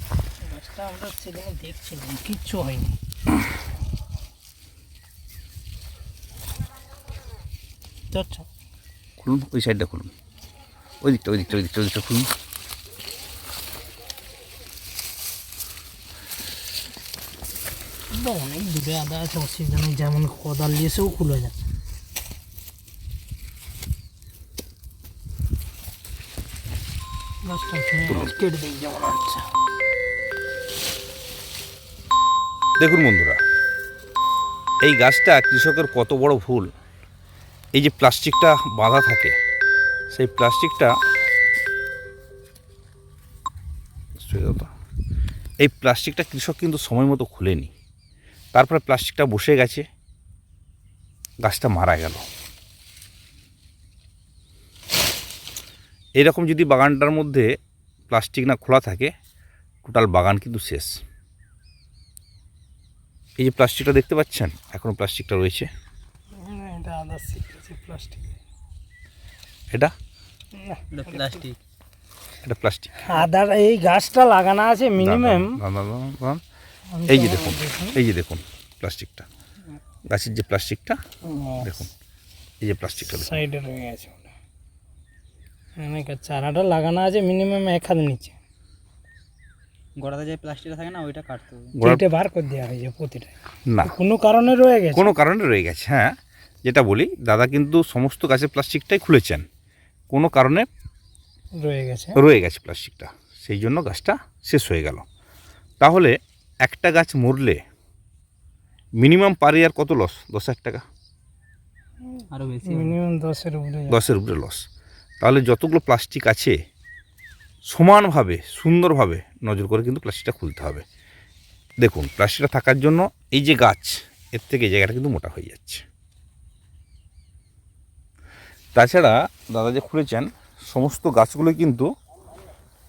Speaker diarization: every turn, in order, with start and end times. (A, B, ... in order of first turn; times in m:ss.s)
0:00.4-0:03.0 A
0:08.1-0:08.4 A
0:09.2-0:10.1 B
0:11.0-0:12.3 B
0:18.1-0:21.6 A
0:27.4-0:29.5 A
0:28.0-0:28.3 B
0:32.8-0:33.4 B
0:34.8-0:36.7 B
0:37.7-0:39.3 B
0:40.1-0:40.9 B
0:44.2-0:44.7 B
0:45.6-0:47.7 B
0:48.5-0:49.8 B
0:51.4-0:52.2 B
0:56.2-0:57.5 B
0:58.1-0:59.1 B
0:59.8-1:01.0 B
1:03.4-1:05.7 B
1:06.3-1:08.4 A
1:10.5-1:11.4 A
1:10.9-1:11.6 C
1:12.4-1:12.9 B
1:13.0-1:15.6 A
1:15.0-1:16.4 B
1:16.9-1:18.0 A
1:17.0-1:19.3 B
1:20.1-1:21.0 B
1:21.2-1:21.8 A
1:21.6-1:21.9 B
1:22.6-1:23.4 B
1:23.0-1:24.3 A
1:25.8-1:28.4 A
1:30.0-1:31.7 C
1:31.7-1:32.0 B
1:31.8-1:35.1 A
1:33.7-1:33.9 B
1:34.9-1:36.1 B
1:36.6-1:39.4 B
1:40.1-1:40.7 B
1:41.5-1:42.2 A
1:42.1-1:45.0 B
1:45.8-1:47.6 B
1:49.0-1:50.8 B
1:52.3-1:53.0 C
1:52.6-1:54.0 A
1:53.9-1:54.6 B
1:55.2-1:56.6 B
1:57.6-2:00.8 B
2:01.8-2:05.8 B
2:08.7-2:11.9 B